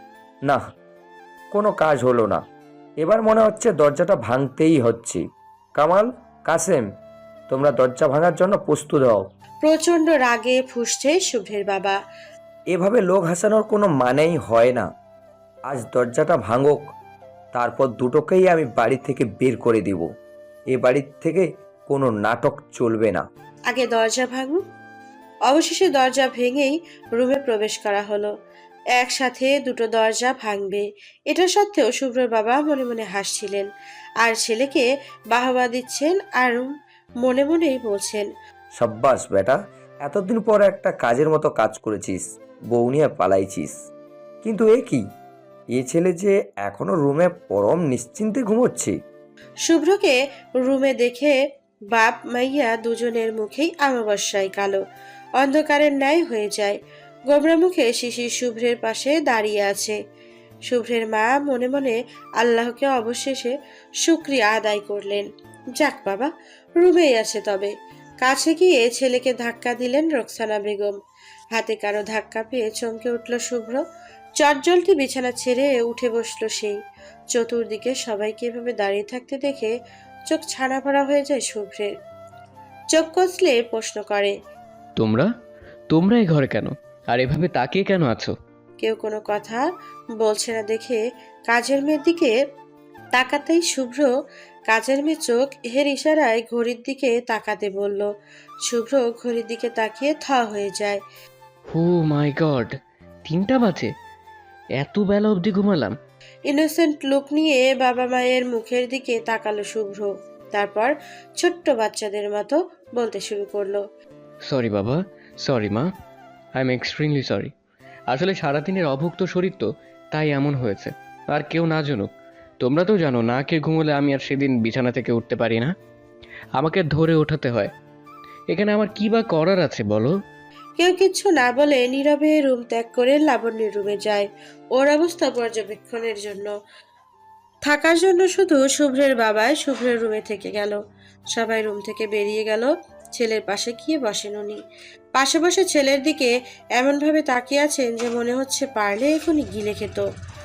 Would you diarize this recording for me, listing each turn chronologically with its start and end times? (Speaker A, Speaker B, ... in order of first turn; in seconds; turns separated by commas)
Speaker A: 1.5-2.4, Speaker A: 3.0-5.2, Speaker A: 5.8-6.9, Speaker A: 7.5-9.2, Speaker B: 9.6-12.0, Speaker A: 12.7-14.9, Speaker A: 15.7-16.8, Speaker A: 17.5-20.1, Speaker A: 20.7-23.3, Speaker B: 23.7-24.6, Speaker B: 25.5-28.3, Speaker B: 28.9-33.7, Speaker B: 34.2-36.7, Speaker B: 37.2-38.3, Speaker A: 38.8-43.8, Speaker A: 44.4-45.0, Speaker A: 45.8-49.0, Speaker B: 49.6-51.4, Speaker B: 51.9-54.8, Speaker B: 55.4-56.8, Speaker B: 57.3-60.0, Speaker B: 60.7-65.2, Speaker B: 65.8-71.0, Speaker B: 71.5-73.8, Speaker B: 74.4-76.8, Speaker B: 77.3-79.7, Speaker B: 80.3-81.9, Speaker B: 82.9-84.3, Speaker C: 85.0-85.3, Speaker C: 85.9-88.3, Speaker B: 88.8-89.6, Speaker B: 90.2-92.3, Speaker B: 93.1-94.1, Speaker B: 94.7-98.1, Speaker B: 98.7-101.0, Speaker C: 101.7-102.8, Speaker C: 103.2-103.9, Speaker C: 104.8-106.0, Speaker B: 106.5-113.8, Speaker C: 114.5-115.9, Speaker C: 116.6-117.5, Speaker C: 118.1-125.7, Speaker C: 126.6-127.7, Speaker C: 128.5-130.2, Speaker B: 130.8-136.5, Speaker B: 137.6-140.8, Speaker B: 141.3-144.6, Speaker B: 145.2-150.0